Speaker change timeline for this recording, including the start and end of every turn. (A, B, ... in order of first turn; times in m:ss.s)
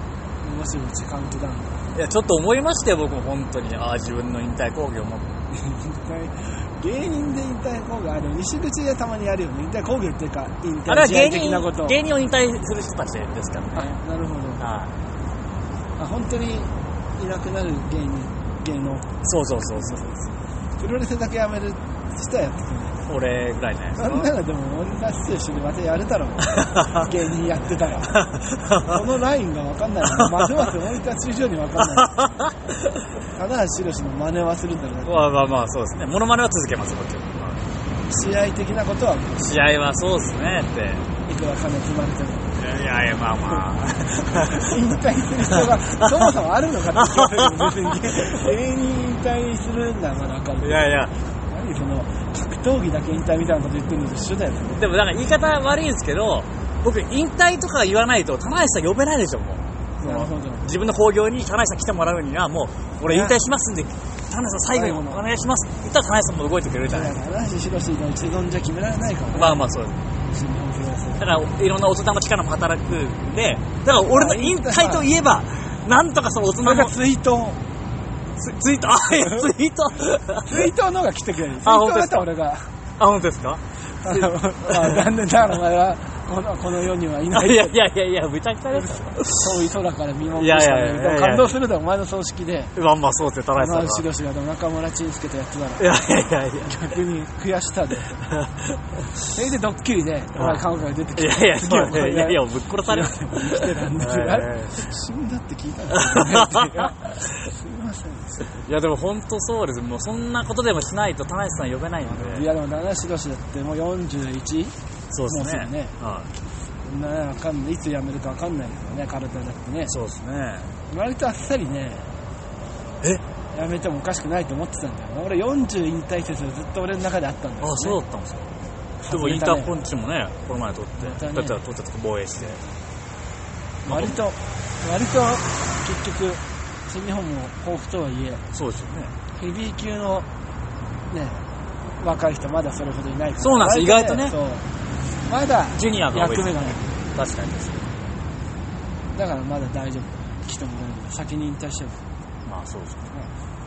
0:00.4-0:01.9 A
0:01.9-0:05.3 B
0:05.5-0:12.0 A
0:10.9-0:14.0 B
0:13.7-0:14.6 A
0:14.6-0:14.9 B
0:16.0-0:19.1 A
0:19.2-0:20.3 B
0:19.7-0:20.0 A
0:20.8-0:23.0 A
0:23.1-0:24.3 B
0:24.0-0:28.2 A
0:26.5-0:27.0 B
0:28.2-0:28.9 B
0:28.9-0:32.1 A
0:30.2-0:30.7 B
0:31.8-0:32.8 B
0:33.3-0:35.3 A
0:35.0-0:37.6 B
0:38.1-0:39.6 A
0:39.4-0:41.1 B
0:41.2-0:42.6 A
0:42.6-0:44.7 B
0:44.5-0:54.8 A
0:47.0-0:48.4 B
0:50.6-0:51.1 B
0:54.7-1:07.2 B
1:00.0-1:00.7 A
1:03.1-1:03.4 A
1:04.7-1:05.2 A
1:06.9-1:09.6 A
1:09.3-1:10.0 B
1:10.2-1:11.4 A
1:11.2-1:16.9 B
1:13.9-1:15.1 A
1:16.6-1:17.6 A
1:18.4-1:20.7 B
1:20.5-1:22.7 A
1:21.6-1:22.3 B
1:23.0-1:25.1 B
1:24.0-1:27.8 A
1:27.3-1:29.5 B
1:28.7-1:32.7 A
1:30.4-1:31.6 B
1:32.8-1:34.0 B
1:33.6-1:36.0 A
1:35.8-1:37.0 B
1:36.6-1:38.3 A
1:39.3-1:48.6 A
1:40.4-1:40.6 B
1:41.2-1:44.8 B
1:46.1-1:47.3 B
1:48.5-1:52.5 B
1:52.0-1:54.8 A
1:55.1-1:56.3 B
1:55.3-1:56.0 A
1:56.8-2:00.0 A
1:59.9-2:00.7 B
2:00.9-2:02.1 A
2:03.5-2:08.0 A
2:07.6-2:08.5 B
2:09.0-2:09.8 A
2:09.1-2:12.6 B
2:11.0-2:11.6 A
2:13.8-2:14.2 B
2:13.9-2:18.4 A
2:18.5-2:19.2 B
2:19.4-2:20.3 A
2:21.1-2:21.4 A
2:22.0-2:24.7 A
2:23.4-2:24.4 B
2:25.2-2:26.9 A
2:25.7-2:27.9 B
2:29.1-2:32.1 A
2:32.5-2:33.1 B